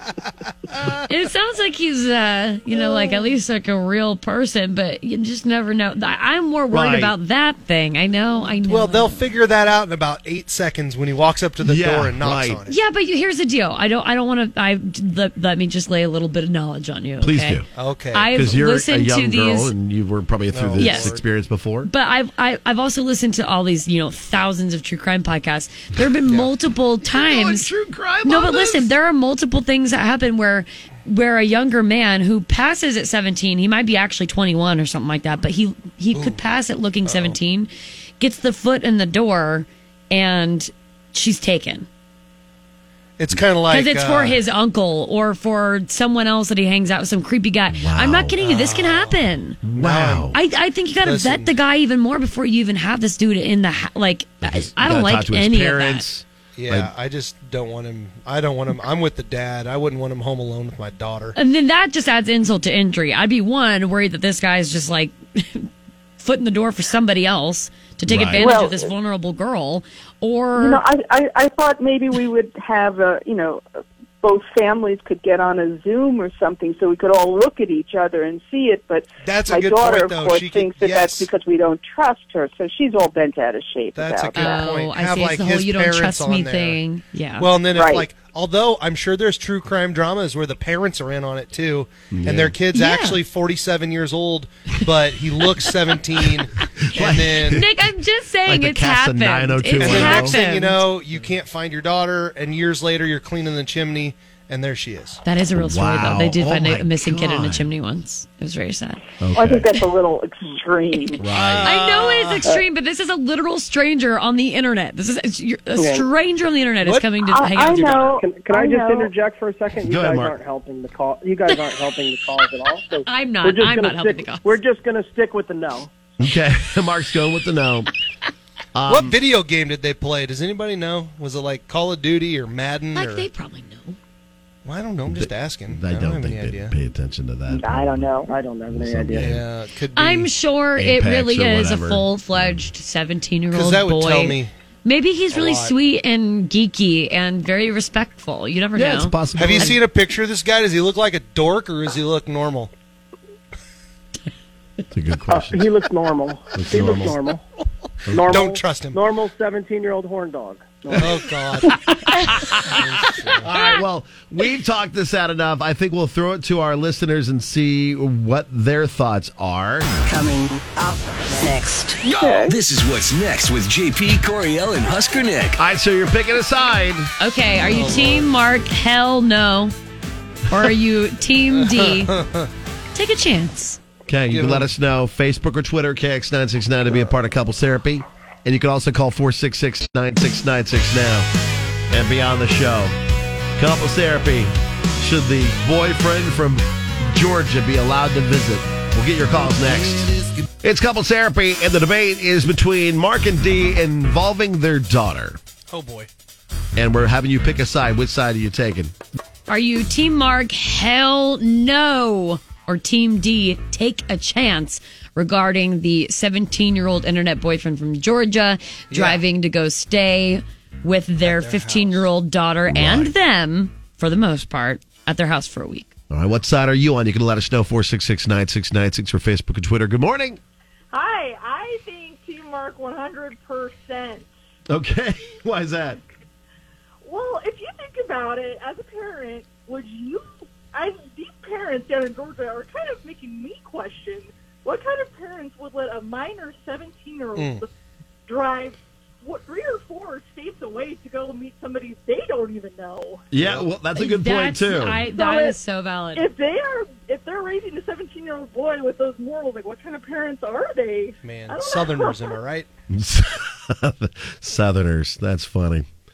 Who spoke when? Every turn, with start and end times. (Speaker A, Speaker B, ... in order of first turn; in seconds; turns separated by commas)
Speaker A: 1.1-9.2, Speaker B: 6.7-7.1, Speaker C: 8.7-12.8, Speaker B: 11.6-12.6, Speaker A: 12.7-19.7, Speaker B: 17.2-17.7, Speaker C: 17.7-18.3, Speaker B: 18.3-21.9, Speaker C: 20.5-21.2, Speaker A: 20.8-21.1, Speaker A: 21.9-27.7, Speaker B: 27.1-28.9, Speaker A: 28.2-37.7, Speaker C: 37.1-37.4, Speaker A: 38.2-41.9, Speaker C: 43.2-44.4, Speaker A: 43.7-49.6, Speaker B: 47.7-48.4, Speaker C: 48.4-49.2, Speaker B: 49.6-50.4, Speaker C: 49.8-50.4, Speaker A: 50.3-56.1, Speaker C: 51.0-51.5, Speaker B: 54.4-56.9, Speaker C: 56.6-61.4, Speaker A: 61.4-70.8, Speaker B: 68.1-68.5, Speaker D: 68.4-68.9, Speaker D: 70.6-73.6, Speaker D: 74.2-84.6, Speaker C: 79.2-81.3, Speaker C: 84.0-86.8, Speaker A: 84.4-87.5, Speaker C: 87.4-97.7, Speaker D: 87.7-88.1, Speaker B: 92.1-92.5, Speaker A: 92.7-93.2, Speaker B: 96.9-97.8, Speaker A: 97.4-100.8, Speaker B: 98.5-100.4, Speaker C: 99.8-105.2, Speaker A: 105.2-109.0, Speaker B: 105.6-107.7, Speaker B: 109.2-109.7, Speaker D: 109.3-111.2, Speaker B: 111.2-111.8, Speaker C: 111.3-112.5, Speaker A: 111.6-118.2, Speaker E: 115.8-116.1, Speaker D: 117.2-119.1, Speaker E: 118.1-125.9, Speaker B: 119.8-120.4, Speaker A: 123.0-124.6, Speaker B: 126.2-127.9, Speaker B: 128.8-129.2, Speaker C: 128.9-133.3, Speaker A: 132.9-134.0, Speaker C: 134.7-136.7, Speaker B: 135.1-139.4, Speaker D: 137.5-138.3, Speaker E: 138.3-139.4, Speaker C: 139.2-140.3, Speaker A: 140.0-149.8, Speaker B: 140.8-142.7, Speaker C: 143.5-144.5, Speaker C: 145.3-145.7, Speaker B: 148.8-149.8, Speaker C: 149.3-152.7, Speaker B: 154.9-155.9, Speaker E: 155.3-157.4, Speaker B: 156.5-157.3, Speaker B: 158.1-158.4, Speaker E: 158.1-161.2, Speaker C: 158.2-159.0, Speaker C: 161.0-161.8, Speaker C: 162.7-163.5, Speaker B: 163.4-169.9, Speaker D: 172.2-172.5, Speaker F: 172.2-175.6, Speaker B: 175.6-177.1, Speaker A: 177.2-179.7, Speaker C: 177.7-178.3, Speaker A: 180.5-182.1, Speaker C: 181.6-182.5, Speaker A: 182.9-183.8, Speaker B: 184.1-191.3, Speaker C: 184.3-184.7, Speaker B: 191.9-192.9, Speaker B: 193.6-205.4, Speaker C: 205.7-206.1, Speaker B: 206.8-208.9, Speaker A: 209.5-225.9, Speaker C: 218.9-219.2, Speaker C: 221.2-222.1, Speaker B: 222.7-223.1, Speaker B: 226.1-230.4, Speaker G: 230.9-234.3, Speaker B: 234.7-236.0, Speaker G: 237.0-247.7, Speaker C: 247.3-247.6, Speaker G: 248.3-253.3, Speaker B: 253.3-255.1, Speaker C: 253.3-253.7, Speaker A: 253.9-256.3, Speaker G: 255.1-255.6, Speaker G: 256.2-262.4, Speaker C: 261.2-262.7, Speaker B: 262.9-265.9